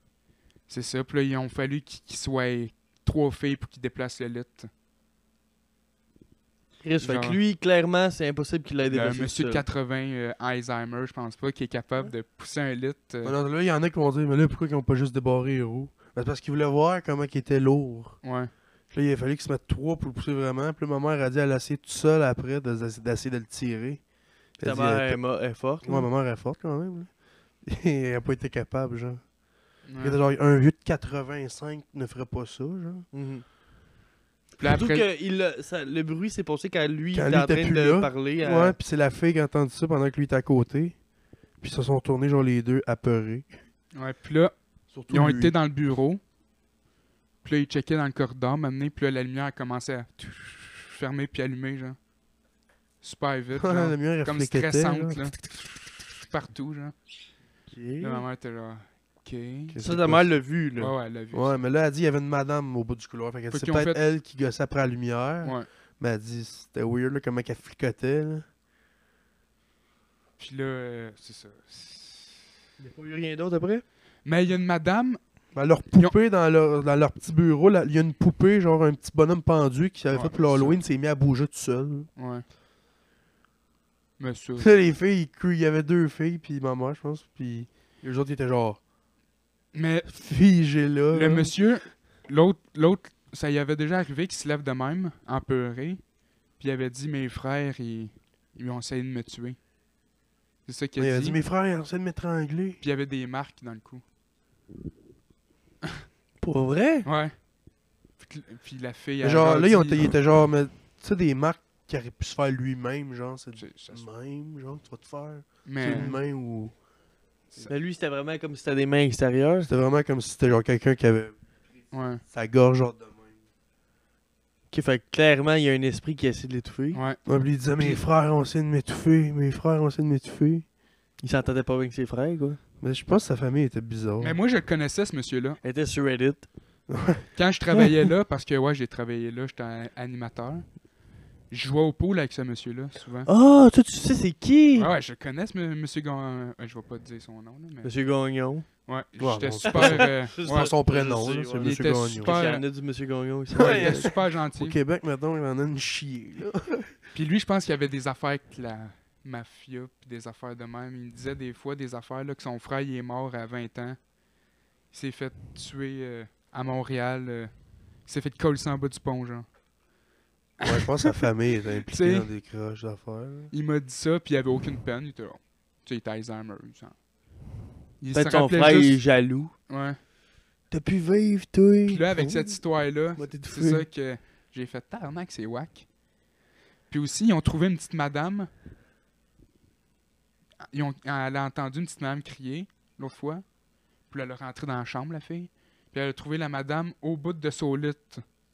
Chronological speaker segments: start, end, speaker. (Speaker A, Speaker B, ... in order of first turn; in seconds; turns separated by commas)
Speaker A: 0.7-4.7, Speaker B: 6.8-9.6, Speaker A: 7.0-7.4, Speaker A: 8.9-13.3, Speaker C: 13.2-18.2, Speaker A: 18.2-18.5, Speaker C: 18.9-24.0, Speaker C: 24.6-25.2, Speaker B: 24.6-26.1, Speaker C: 25.8-29.2, Speaker A: 29.9-30.2, Speaker C: 30.0-33.0, Speaker B: 33.1-33.5, Speaker A: 34.6-35.0, Speaker B: 34.6-38.7, Speaker C: 37.1-41.0, Speaker C: 41.6-43.5, Speaker A: 43.9-44.5, Speaker C: 44.9-45.5, Speaker A: 45.1-46.2, Speaker A: 47.4-52.0, Speaker A: 53.0-56.9, Speaker C: 53.6-55.3, Speaker B: 57.7-58.2, Speaker A: 58.0-59.8, Speaker C: 59.7-60.3, Speaker B: 59.7-60.9, Speaker A: 60.8-61.5, Speaker C: 61.3-68.5, Speaker A: 63.5-64.0, Speaker A: 65.4-65.7, Speaker A: 70.4-72.4, Speaker B: 72.8-73.8, Speaker A: 74.2-75.2, Speaker C: 75.5-82.1, Speaker A: 75.7-76.1, Speaker A: 80.1-80.8, Speaker A: 82.2-82.4, Speaker A: 84.2-84.8, Speaker C: 84.6-88.8, Speaker A: 89.7-90.2, Speaker C: 90.1-91.5, Speaker A: 91.1-96.0, Speaker A: 96.6-99.6, Speaker A: 100.7-101.4, Speaker C: 101.0-102.8, Speaker A: 102.8-104.0, Speaker B: 106.4-107.1, Speaker A: 107.0-107.3, Speaker A: 108.2-110.2, Speaker C: 109.2-116.7, Speaker A: 113.5-114.0, Speaker A: 115.6-116.1, Speaker B: 115.8-116.2, Speaker B: 117.6-119.7, Speaker C: 119.6-121.4, Speaker A: 121.9-122.2, Speaker C: 122.2-123.3, Speaker B: 124.7-127.0, Speaker A: 126.9-127.2, Speaker C: 127.2-130.6, Speaker A: 127.8-128.0, Speaker B: 131.2-132.6, Speaker C: 132.8-134.4, Speaker A: 134.2-135.6, Speaker B: 135.6-136.5, Speaker C: 136.9-137.3, Speaker A: 137.3-140.8, Speaker A: 141.5-143.3, Speaker B: 143.3-144.9, Speaker A: 144.8-147.9, Speaker B: 147.8-148.7, Speaker A: 148.8-150.7, Speaker C: 149.2-152.4, Speaker B: 149.7-154.1, Speaker A: 151.6-152.6, Speaker A: 153.6-154.8, Speaker C: 153.6-156.9, Speaker A: 157.1-164.0, Speaker A: 164.9-169.4, Speaker A: 170.6-171.1, Speaker C: 170.6-173.5, Speaker A: 171.9-172.3, Speaker A: 173.5-176.9, Speaker A: 178.0-179.0, Speaker B: 178.1-179.5, Speaker A: 179.7-180.0, Speaker B: 180.7-182.6, Speaker A: 181.9-185.9, Speaker B: 183.2-183.8, Speaker A: 186.9-188.5, Speaker A: 190.7-193.4, Speaker A: 194.1-198.2